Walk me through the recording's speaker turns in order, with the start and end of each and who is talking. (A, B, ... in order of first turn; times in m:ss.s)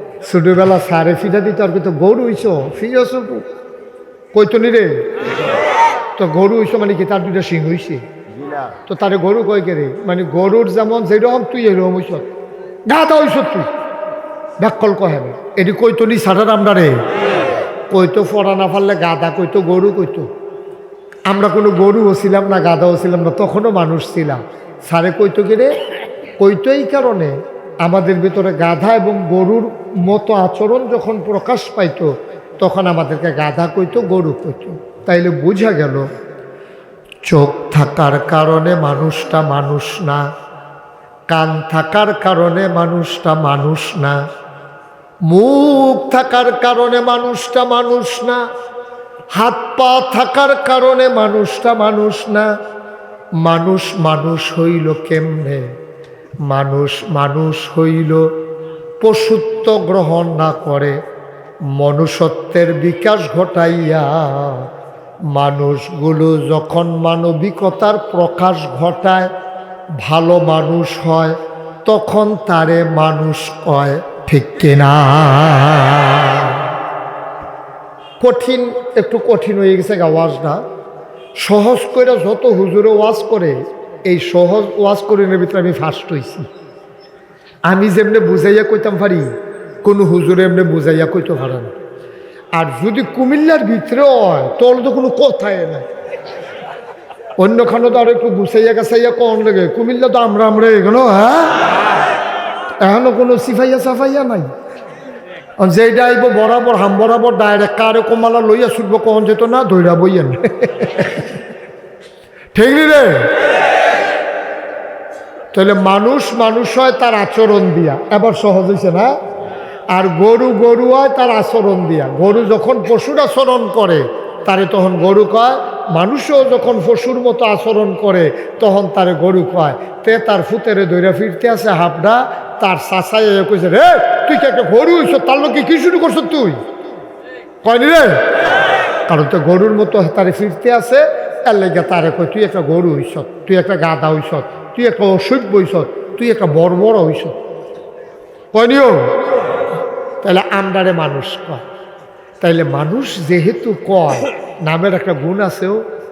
0:00.2-0:03.5 A
0:04.3-0:05.0 A
0:06.2-0:08.0 A
0:08.9-0:12.3 A
0:12.9-0:13.7 A
0:14.6-0:17.0 A
0:17.9-0:20.3 A
0:21.3-0:25.7 A
0:26.4-0:36.1 A
0:37.2-0:40.3 A
0:41.3-0:44.2 A
0:45.2-0:48.5 A
0:49.3-0:52.5 A
0:53.4-0:55.8 A
0:56.4-0:58.3 A
0:59.0-1:01.0 A
1:01.6-1:04.7 A
1:05.3-1:09.3 A
1:10.0-1:16.7 A
1:18.2-1:20.6 A
1:21.4-1:26.5 A
1:27.7-1:29.3 A
1:29.8-1:31.7 A
1:32.6-1:35.9 A
1:37.4-1:41.6 A
1:42.8-1:44.5 A
1:45.6-1:51.2 A
1:52.5-1:53.4 A
1:55.5-1:59.1 A
1:59.9-2:16.6 A
2:17.6-2:18.3 A
2:19.1-2:27.4 A
2:28.5-2:29.2 A
2:30.2-2:31.6 A
2:32.4-2:35.8 A